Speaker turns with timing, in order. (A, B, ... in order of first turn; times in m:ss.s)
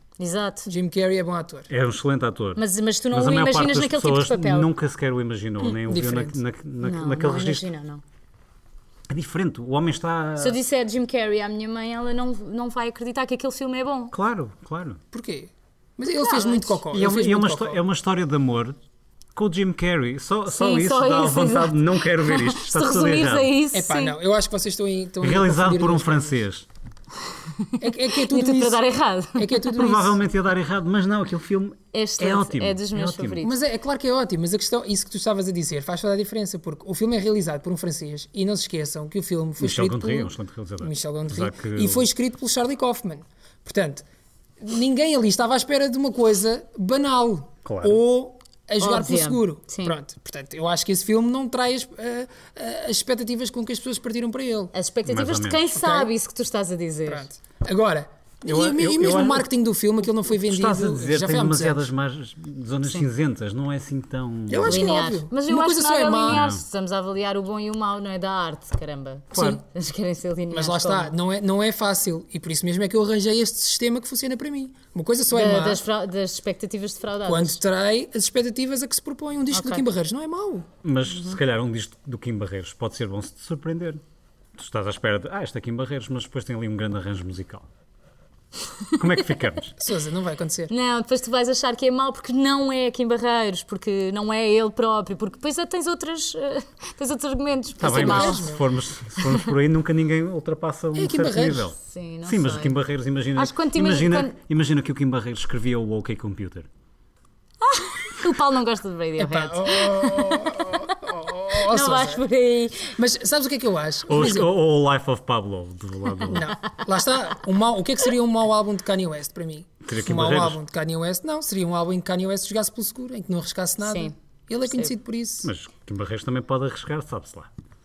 0:00.2-0:00.7 A
0:00.6-0:01.7 B
0:01.7-0:07.7 C
0:02.6-0:04.7 A
0:05.7-0:06.4 B
0:06.8-0:08.0 A
0:09.1-0:10.6 C
0:10.4-0:14.1 A
0:14.1-0:15.0 C
0:15.1-0:17.8 B
0:16.2-0:16.8 A
0:16.9-0:18.8 C
0:19.4-0:23.5 C
0:20.5-0:24.2 A
0:23.7-0:26.4 B
0:25.2-0:26.7 C
0:27.6-0:29.6 A
0:27.8-0:28.8 B
0:29.4-0:30.2 B
0:29.7-0:33.4 C
0:31.9-0:33.5 A
0:33.4-0:44.0 B
0:39.6-0:42.1 C
0:44.6-0:54.7 B
0:47.6-0:48.0 C
0:48.8-0:50.0 A
0:54.7-0:57.3 A
0:55.1-0:55.7 C
0:55.8-0:56.1 B
0:57.1-1:01.9 B
0:58.4-0:59.5 C
1:00.3-1:04.9 C
1:04.5-1:06.5 B
1:04.7-1:11.1 A
1:06.3-1:06.6 C
1:09.3-1:09.6 B
1:09.3-1:09.6 C
1:10.5-1:15.8 B
1:15.3-1:17.6 A
1:17.2-1:20.7 B
1:19.5-1:19.8 A
1:20.8-1:24.0 C
1:21.1-1:21.4 A
1:24.6-1:27.7 C
1:29.0-1:29.8 C
1:29.8-1:30.7 B
1:30.7-1:38.5 A
1:37.8-1:46.7 C
1:37.8-1:38.6 B
1:41.0-1:41.7 B
1:41.8-1:42.8 A
1:43.4-1:44.4 A
1:47.6-1:52.9 A
1:49.2-1:52.2 B
1:52.8-1:54.5 B
1:54.1-1:56.5 C
1:56.3-2:05.5 B
1:59.8-2:00.6 C
2:03.8-2:04.1 A
2:05.4-2:07.5 C